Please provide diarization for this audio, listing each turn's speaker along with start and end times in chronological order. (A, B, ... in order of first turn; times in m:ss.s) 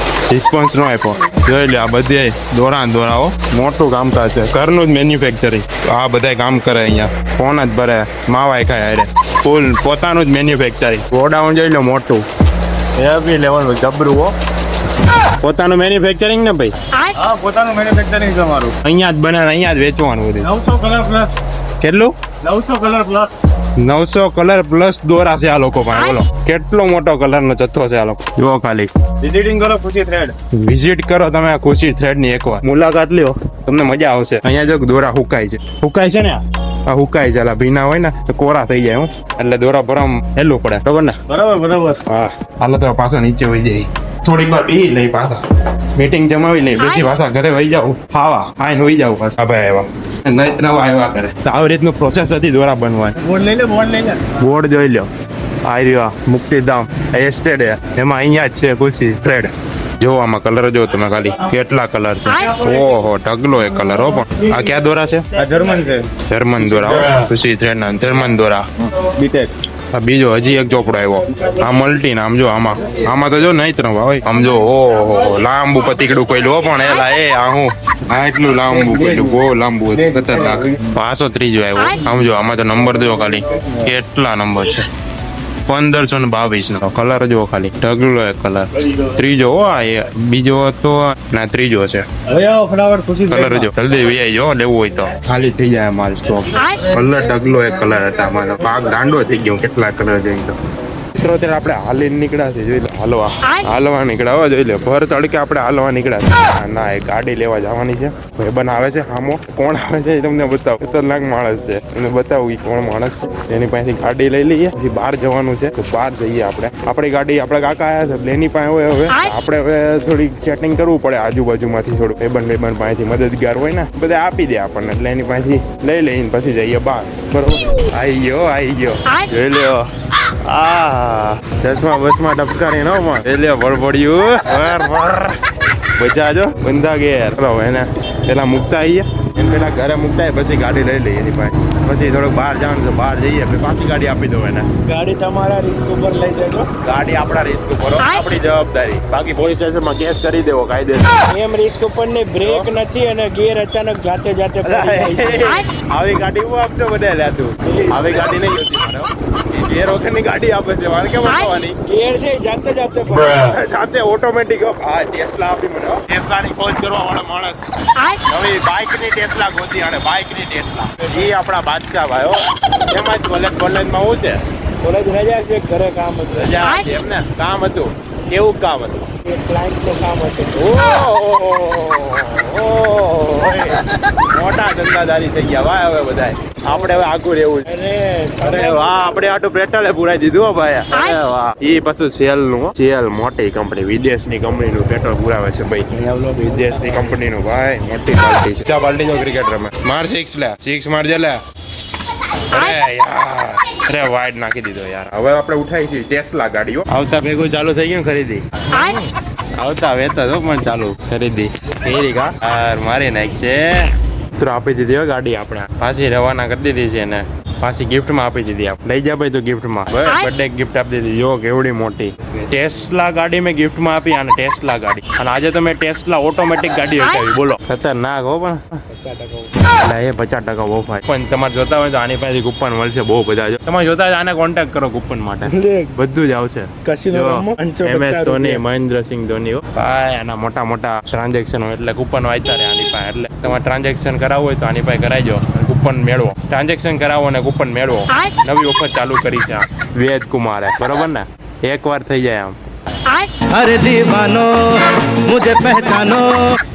0:00.3-0:12.2 A
0:13.0-0:14.3 A
0:15.4-0:16.7 A
0:17.2-0:18.7 B
0:18.8-0:20.5 A
0:20.4-0:21.3 B
0:21.8-0:22.1 A
0:22.4-0:23.4 B
0:23.8-0:28.9 A
0:29.2-0:30.3 B
0:30.5-0:41.2 A
0:41.3-0:42.0 B
0:42.0-0:45.4 A
0:46.0-0:53.2 A
0:53.2-0:54.2 B
0:53.3-0:54.0 C
0:54.2-0:55.1 A
0:55.6-1:05.2 A
1:05.4-1:07.3 B
1:06.2-1:08.6 A
1:08.8-1:09.7 B
1:09.9-1:24.9 A
1:23.3-1:23.9 B
1:25.7-1:32.0 A
1:32.3-1:33.7 B
1:33.3-1:40.6 A
1:41.2-2:09.9 A
2:10.4-2:15.4 A
2:16.0-2:24.7 A
2:24.8-2:26.7 C
2:26.8-2:31.3 A
2:31.3-2:35.6 C
2:32.4-2:32.7 A
2:34.6-2:41.8 A
2:41.8-2:43.5 C
2:43.3-2:47.7 A
2:48.2-2:54.4 A
2:54.8-2:56.5 C
2:56.3-2:59.1 A
2:59.2-3:00.7 C
3:00.5-3:07.7 A
3:07.7-3:09.0 C
3:08.4-3:21.4 A
3:15.9-3:17.1 C
3:22.5-3:48.8 A
3:48.9-3:49.5 C
3:49.7-4:12.6 A
3:55.5-3:55.9 C
3:56.8-3:58.6 C
4:13.4-4:16.6 D